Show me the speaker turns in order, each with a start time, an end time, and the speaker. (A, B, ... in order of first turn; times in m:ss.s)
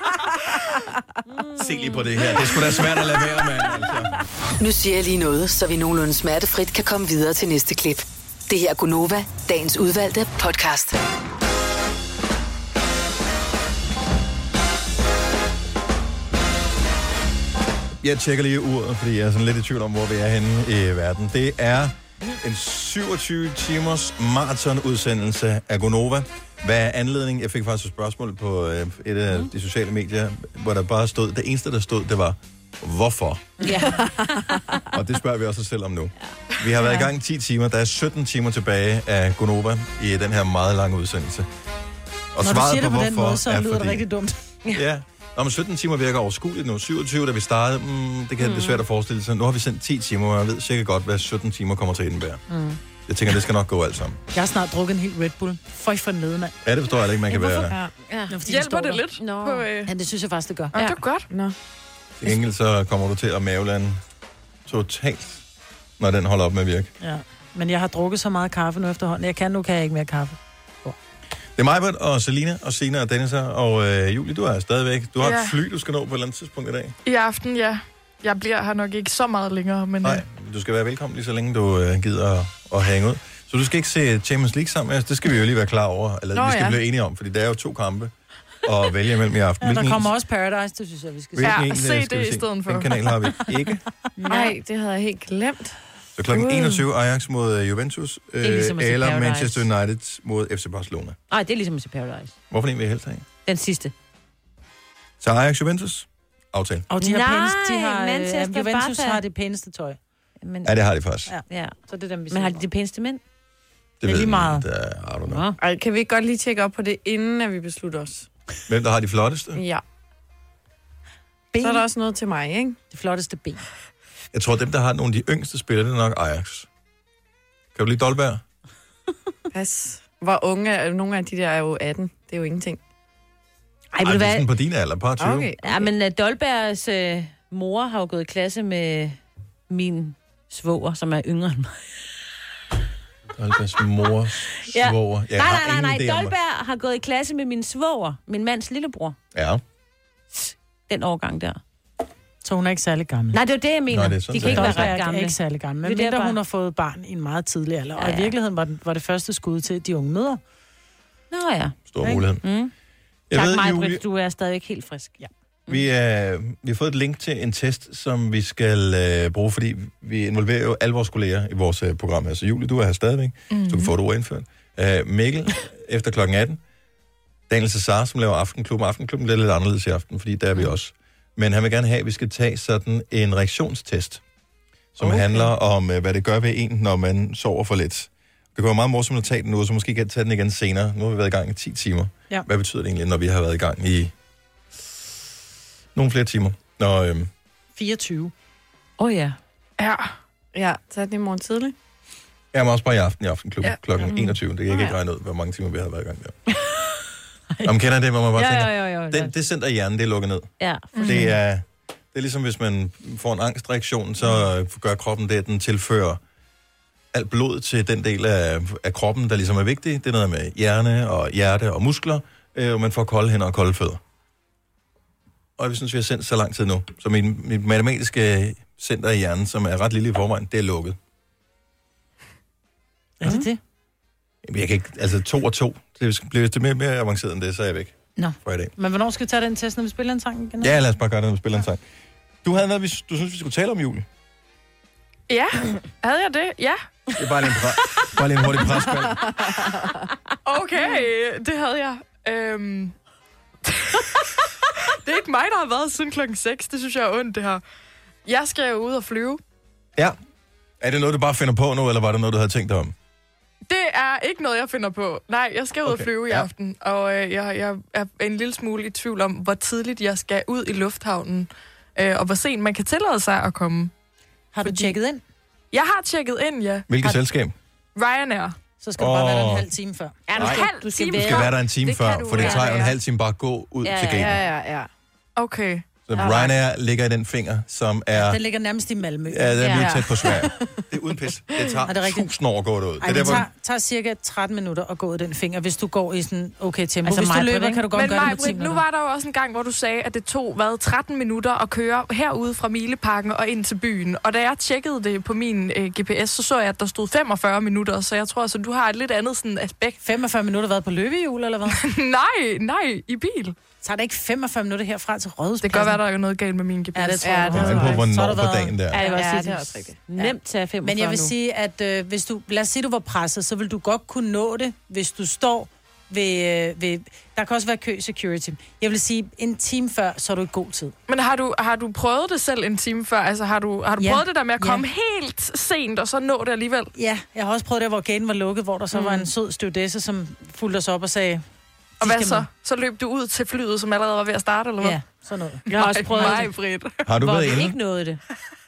0:01.3-0:01.9 A
0:01.6-0:04.2 B
0:04.6-0:11.0 C
0:18.0-0:33.5 B
0:33.6-0:34.0 A
0:33.9-0:34.8 D
0:34.9-0:41.5 B
0:42.3-0:44.0 B
0:42.4-0:44.4 E
0:44.7-0:52.4 B
0:48.4-0:48.8 A
0:52.5-0:52.8 E
0:53.1-0:54.2 B
0:54.3-0:56.6 E
0:56.6-0:57.8 B
0:57.6-0:58.4 A
0:58.3-0:59.1 E
0:58.5-0:59.9 F
0:59.2-0:59.7 A
0:59.9-1:00.8 E
1:00.7-1:01.3 F
1:00.8-1:01.0 A
1:01.3-1:01.6 D
1:02.2-1:04.0 B
1:04.7-1:05.4 B
1:06.0-1:06.9 B
1:07.0-1:11.0 E
1:11.6-1:16.9 B
1:15.2-1:15.6 F
1:17.1-1:20.2 F
1:20.0-1:28.1 B
1:26.3-1:26.8 D
1:28.6-1:30.1 B
1:29.6-1:31.6 E
1:31.4-1:33.8 B
1:31.4-1:33.0 F
1:34.2-1:34.5 A
1:34.3-1:35.8 D
1:36.2-1:41.2 B
1:36.3-1:36.8 D
1:38.4-1:39.6 A
1:41.3-1:42.4 A
1:42.5-1:43.3 B
1:43.4-1:43.9 A
1:45.2-1:46.9 B
1:46.9-1:50.0 E
1:47.0-1:49.2 A
1:50.4-1:50.8 A
1:50.6-1:51.3 B
1:51.3-1:52.7 E
1:51.5-1:51.8 A
1:52.3-1:53.2 A
1:54.0-1:55.5 B
1:54.1-1:54.6 E
1:55.3-1:55.6 A
1:55.6-1:58.3 D
1:58.7-1:59.6 B
1:59.6-1:59.8 D
2:01.5-2:01.9 E
2:01.6-2:02.8 D
2:02.9-2:03.6 E
2:04.3-2:06.7 B
2:07.8-2:08.4 B
2:09.5-2:12.8 D
2:13.9-2:14.5 A
2:14.0-2:15.5 B
2:15.2-2:15.9 D
2:15.6-2:19.2 A
2:19.7-2:21.8 A
2:23.4-2:26.3 B
2:24.6-2:29.2 A
2:29.3-2:29.6 B
2:30.3-2:31.6 A
2:32.4-2:33.4 E
2:33.3-2:36.4 A
2:33.9-2:34.9 B
2:34.4-2:40.4 E
2:38.0-2:38.4 A
2:41.3-2:42.7 A
2:41.9-2:42.5 B
2:43.3-2:44.0 B
2:43.3-2:45.8 A
2:45.7-2:56.6 B
2:53.5-2:53.9 F
2:57.5-3:04.2 B
3:05.0-3:14.1 B
3:05.0-3:05.5 E
3:16.0-3:17.3 B
3:17.8-3:18.3 E
3:19.0-3:19.4 A
3:19.8-3:20.1 F
3:20.5-3:21.7 D
3:22.5-3:26.4 B
3:24.1-3:24.3 A
3:24.7-3:24.9 D
3:27.6-3:36.2 B
3:28.4-3:29.3 A
3:30.6-3:31.3 A
3:31.0-3:31.3 F
3:37.1-3:44.0 B
3:45.6-3:51.0 B
3:53.2-3:53.6 E
3:54.4-3:58.7 B
3:58.2-4:00.8 E
4:00.6-4:01.8 B
4:02.4-4:04.1 B
4:05.3-4:06.8 F
4:07.2-4:09.4 B
4:09.3-4:09.8 D
4:10.4-4:13.0 F
4:13.8-4:14.2 F
4:15.0-4:17.6 F
4:18.3-4:19.4 F
4:20.8-4:22.9 B
4:23.7-4:33.9 F
4:25.8-4:26.5 B
4:34.5-4:35.2 E
4:34.6-4:34.9 F
4:35.7-4:36.9 F
4:36.9-4:37.6 B
4:38.0-4:38.6 F
4:38.8-4:40.2 E
4:39.0-4:39.7 B
4:40.3-4:41.5 A
4:40.4-4:42.9 F
4:40.4-4:40.7 B
4:41.2-4:44.4 B
4:42.3-4:42.8 A
4:43.8-4:44.4 A
4:44.2-4:44.9 D
4:45.4-4:45.9 F
4:46.1-4:48.4 B
4:46.2-4:46.5 D
4:48.2-4:50.4 E
4:49.3-4:53.5 B
4:49.8-4:50.8 D
4:51.9-4:52.3 E
4:53.0-4:58.8 E
4:57.0-4:57.9 A
4:57.9-5:10.0 F
5:10.0-5:11.8 E
5:11.7-5:13.6 F
5:13.8-5:16.0 E
5:15.6-5:17.9 F
5:17.0-5:20.3 E
5:17.2-5:18.0 D
5:17.5-5:19.0 B
5:19.0-5:19.4 A
5:19.0-5:20.0 D
5:20.1-5:21.3 A
5:20.8-5:30.9 E
5:31.1-5:36.9 F
5:34.0-5:34.8 E
5:37.0-5:41.4 E
5:38.9-5:39.3 A
5:42.0-5:42.5 E
5:42.0-5:45.0 F
5:44.8-5:46.4 E
5:45.7-5:47.0 F
5:45.7-5:46.5 A
5:47.1-5:47.8 B
5:47.2-5:48.2 A